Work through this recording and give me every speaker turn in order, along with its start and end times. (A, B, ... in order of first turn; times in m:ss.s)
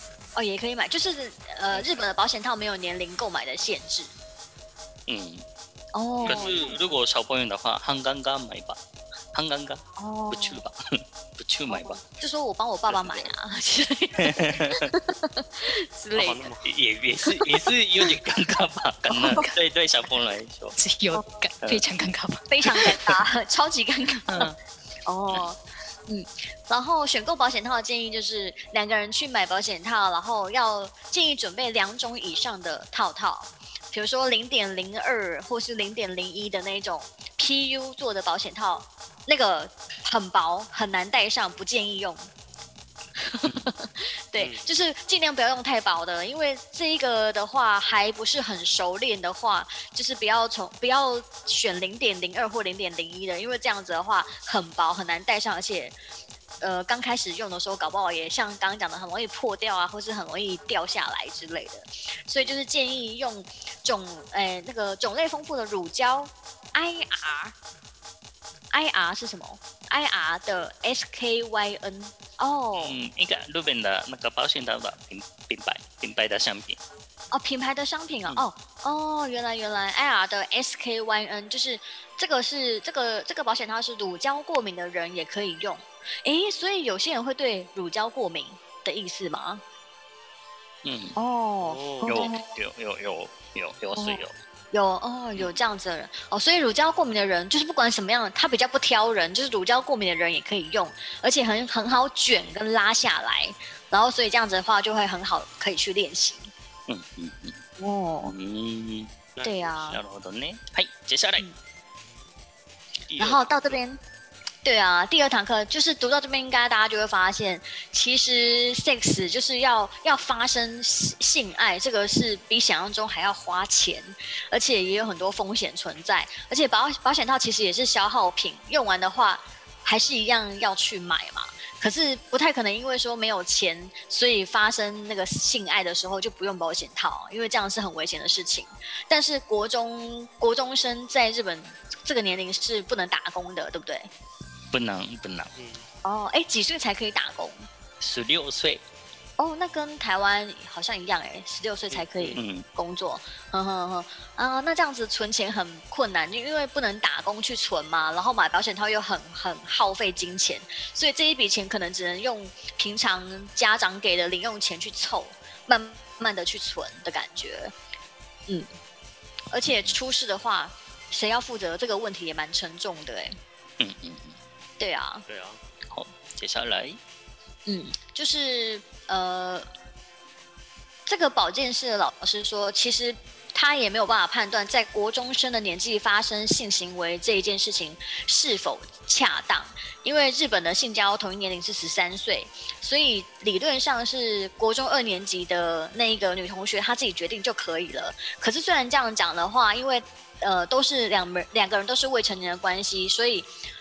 0:00.3-0:04.1 A
0:05.1-0:05.4 B
0:05.9-0:06.7 A
0:06.2-0:06.8 C
0:06.2-0:08.8 B
0:09.3-0:12.0 B
0:10.0-0:10.6 A
0:11.7-0:16.5 A
0:12.9-0:13.3 B
0:14.2-0:14.9 B
0:16.1-0:16.6 C
0:16.6-0:20.8 B
0:19.1-0:19.5 A
0:20.8-0:22.9 D
0:22.5-0:24.5 A
0:24.3-0:24.5 D
0:25.0-0:42.3 A
0:43.2-0:56.0 A
0:44.4-0:44.7 C
0:56.6-1:07.5 A
1:08.7-1:12.9 A
1:12.8-1:16.8 B
1:17.3-1:29.6 A
1:30.8-1:31.2 B
1:31.2-1:32.6 A
1:31.6-1:32.3 C
1:32.0-1:34.3 B
1:33.9-1:46.5 A
1:46.9-1:47.6 B
1:47.8-1:48.3 A
1:48.2-1:49.1 B
1:49.3-1:49.7 C
1:49.4-1:50.0 A
1:49.8-1:51.4 B
1:53.1-1:53.8 B
1:53.2-1:54.0 A
1:54.6-2:24.1 A
2:24.7-2:25.5 B
2:25.5-2:25.8 C
2:26.0-2:27.7 A
2:28.0-2:28.8 B
2:29.4-2:47.7 A
2:31.9-2:32.4 C
2:32.4-2:32.6 B
2:49.5-2:53.4 A
2:49.7-2:49.9 B
2:53.8-2:54.4 B
2:54.8-2:55.2 A
2:55.3-2:55.6 C
2:55.9-2:57.0 B
2:57.6-2:59.7 A
3:01.0-3:23.5 A